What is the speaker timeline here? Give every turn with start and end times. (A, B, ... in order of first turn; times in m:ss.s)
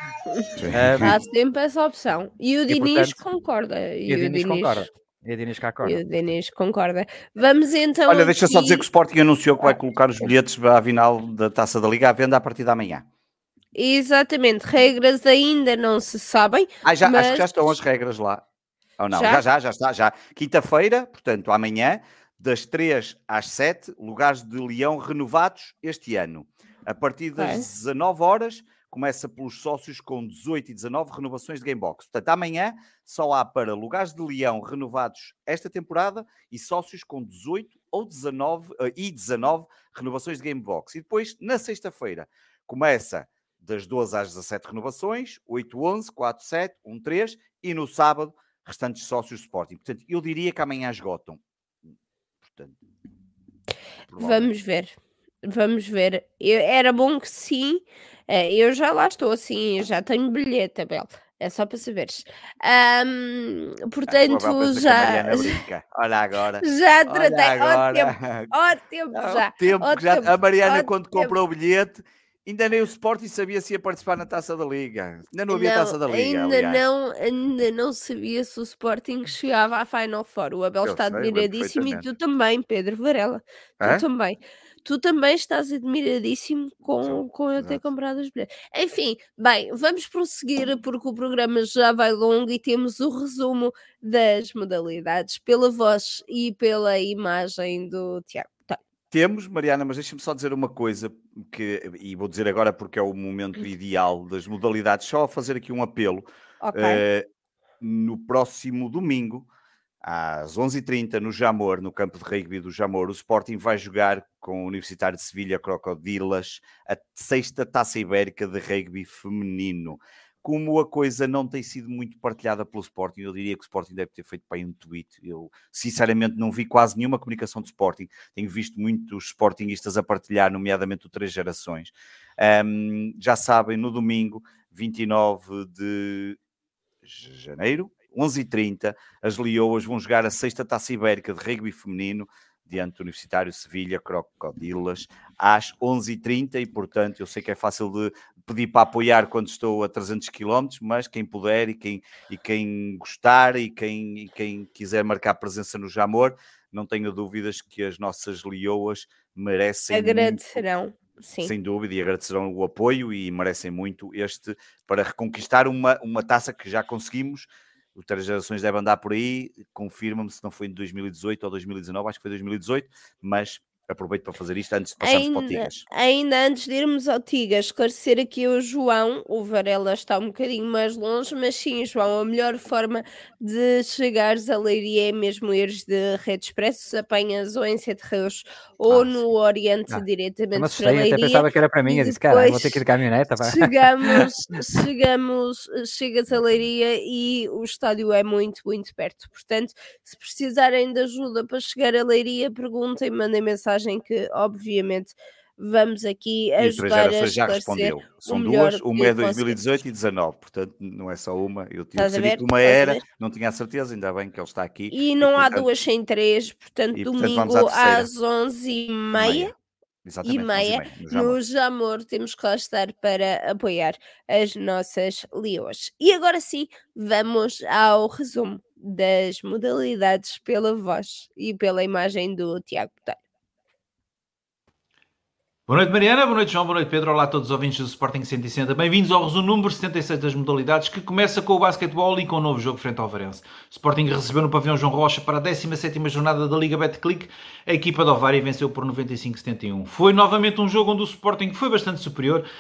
0:00.6-0:01.1 A
0:00.7-0:01.1 B
0:01.0-0:04.8 C
0:02.7-0:03.2 B
0:04.1-0:06.0 B
0:05.8-0:08.8 C
0:08.1-0:13.0 A
0:13.8-0:17.5 C
0:16.8-0:18.4 A
0:19.0-0:51.4 A
0:19.1-0:19.4 C
0:27.4-0:27.7 C
0:52.4-0:52.8 A
0:54.1-0:54.5 A
0:54.2-1:05.6 C
1:04.1-1:08.5 A
1:06.6-1:11.4 C
1:09.1-1:16.8 A
1:15.5-1:38.8 C
1:20.8-1:22.1 A
1:23.8-1:24.0 A
1:27.1-1:27.8 A
1:39.1-1:47.3 A
1:46.6-1:47.0 C
1:47.8-1:49.5 A
1:50.0-2:16.4 A
2:17.0-2:40.6 A
2:39.9-2:41.5 C
2:41.4-2:55.8 A
2:55.0-3:12.8 C
3:10.6-3:14.3 B
3:13.4-3:29.6 C
3:26.6-3:35.7 A
3:32.0-3:33.0 C
3:34.9-3:39.5 C
3:37.0-3:38.1 A
3:39.2-3:39.5 A
3:40.0-3:41.4 A
3:40.2-3:53.2 C
3:55.7-4:12.5 D